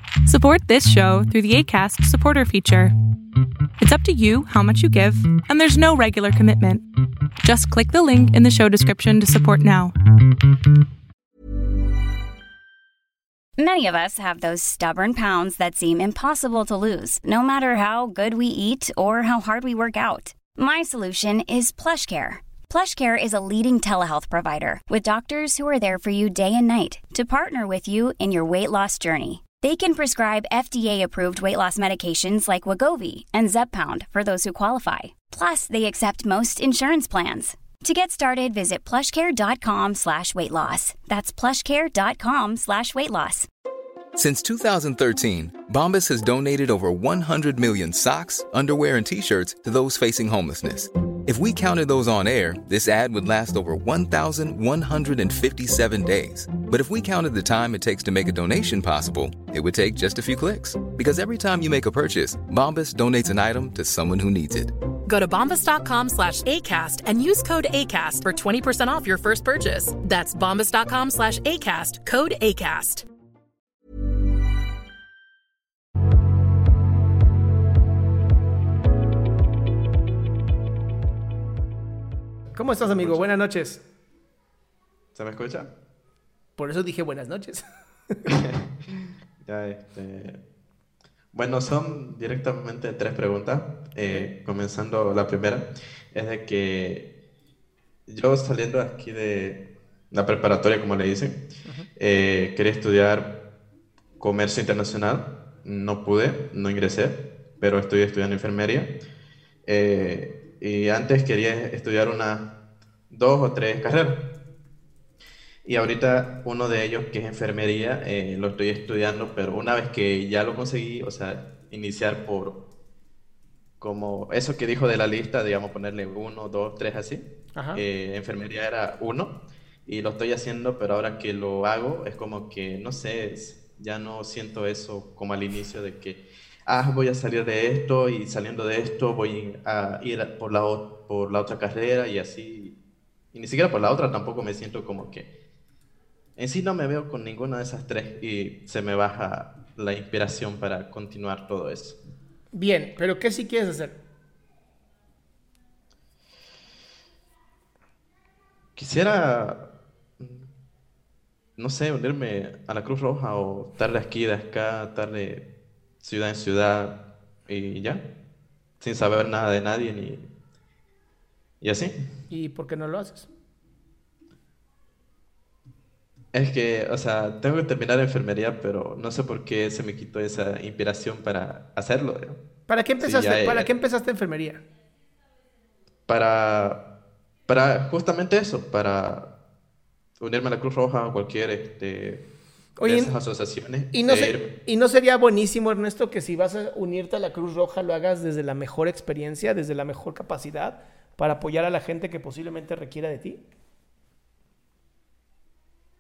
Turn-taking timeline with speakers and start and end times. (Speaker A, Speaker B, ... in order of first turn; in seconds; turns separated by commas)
Speaker A: 0.2-2.9, Speaker A: 3.8-6.8, Speaker A: 7.4-9.9, Speaker B: 13.6-43.5, Speaker C: 44.2-64.7, Speaker D: 65.1-73.0, Speaker E: 82.5-83.8, Speaker F: 82.8-83.3, Speaker F: 85.1-85.7, Speaker E: 86.6-88.2, Speaker F: 88.3-90.4, Speaker F: 91.3-97.0, Speaker F: 98.1-99.6, Speaker F: 100.1-101.4, Speaker F: 102.0-103.3, Speaker F: 104.2-108.9, Speaker F: 109.7-112.5, Speaker F: 113.1-114.2, Speaker F: 115.6-122.6, Speaker F: 123.8-129.3, Speaker E: 127.5-127.8, Speaker F: 129.8-142.7, Speaker F: 143.3-145.2, Speaker F: 146.4-152.0, Speaker E: 152.5-154.0, Speaker F: 158.8-159.6, Speaker F: 160.2-160.5, Speaker F: 161.6-165.4, Speaker F: 166.0-166.9, Speaker F: 167.5-168.0, Speaker F: 168.8-170.2, Speaker F: 171.6-171.9, Speaker E: 172.3-173.3, Speaker F: 176.3-182.4, Speaker E: 182.7-184.6, Speaker F: 183.0-183.7, Speaker F: 186.1-186.8, Speaker F: 187.5-189.2, Speaker F: 190.2-192.2, Speaker E: 192.8-193.1, Speaker F: 192.8-194.5, Speaker E: 193.9-203.4